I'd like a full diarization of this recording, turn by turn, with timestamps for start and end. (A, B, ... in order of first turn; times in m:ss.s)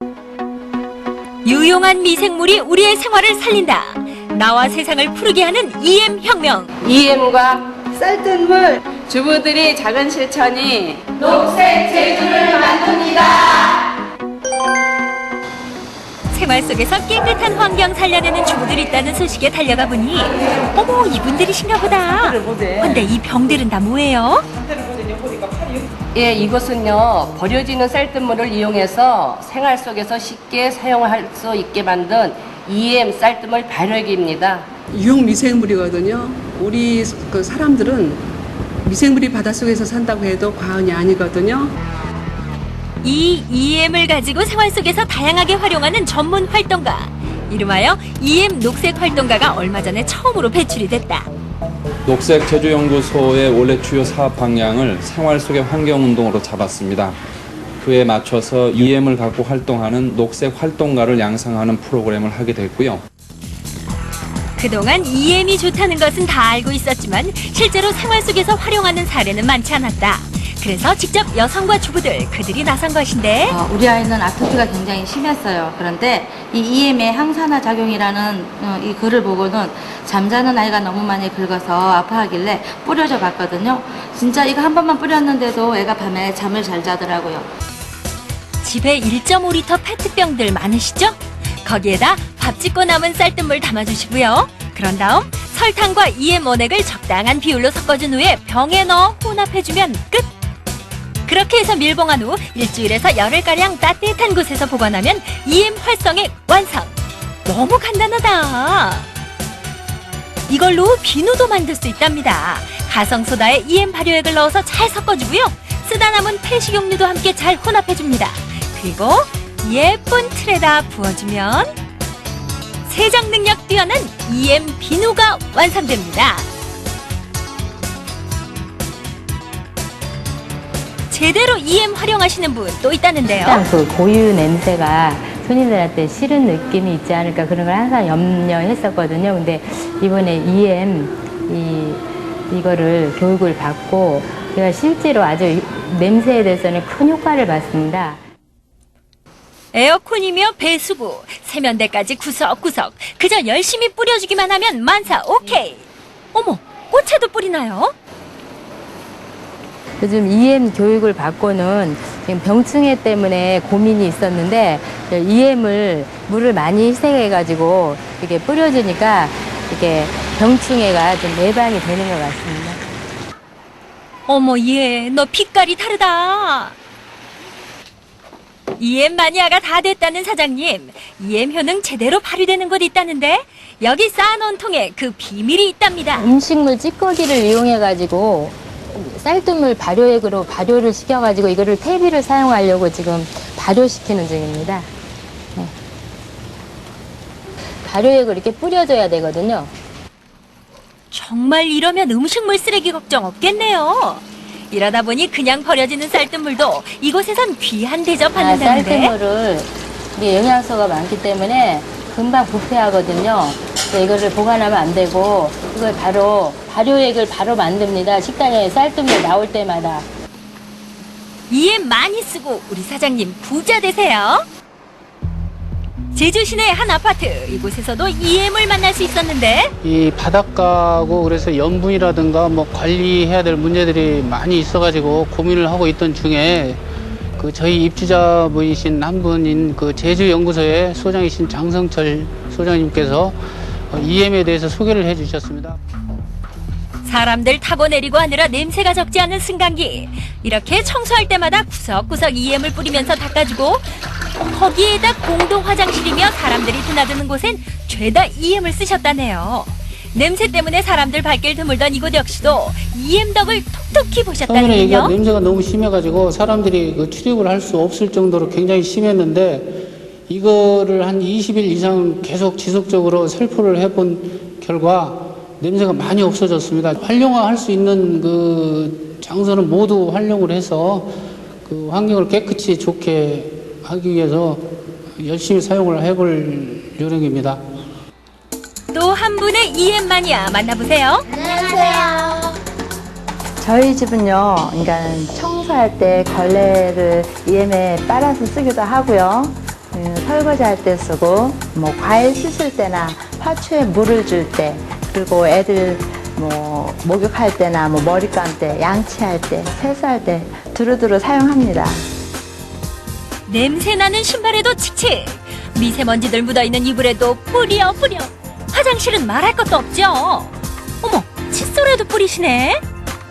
0:01.4-0:06.7 A
0:06.9-0:07.7 B
0:09.0-0:11.0 B
0:16.3-0:24.4 A
0:26.2-0:34.7 B
0:34.9-0:38.2 C
0:38.8-0:41.7 C
0:43.0-0:51.3 A
0:52.1-0:57.2 D
0:57.8-1:03.0 D
1:04.6-1:13.6 A
1:13.5-1:27.5 E
1:28.6-1:40.3 A
1:41.3-1:46.9 A
1:47.5-1:49.1 A
1:50.5-2:01.7 A
2:02.9-2:06.5 A
2:11.1-2:13.7 A
2:13.3-2:28.2 F
2:29.7-2:37.9 A
2:40.0-2:52.8 F
2:54.3-2:56.7 A
2:58.8-3:06.3 A
3:06.2-3:14.9 F
3:17.8-3:19.7 F
3:21.1-3:29.1 A
3:28.4-3:40.1 F
3:41.5-3:44.4 A
3:46.1-3:49.7 A
3:49.8-3:56.8 G
3:57.4-4:03.4 G
4:03.9-4:05.8 G
4:07.0-4:13.9 A
4:14.4-4:25.2 A
4:24.5-4:47.6 G
4:48.9-4:51.3 A
4:51.9-4:52.2 H
4:53.6-5:12.0 H
5:13.5-5:22.8 A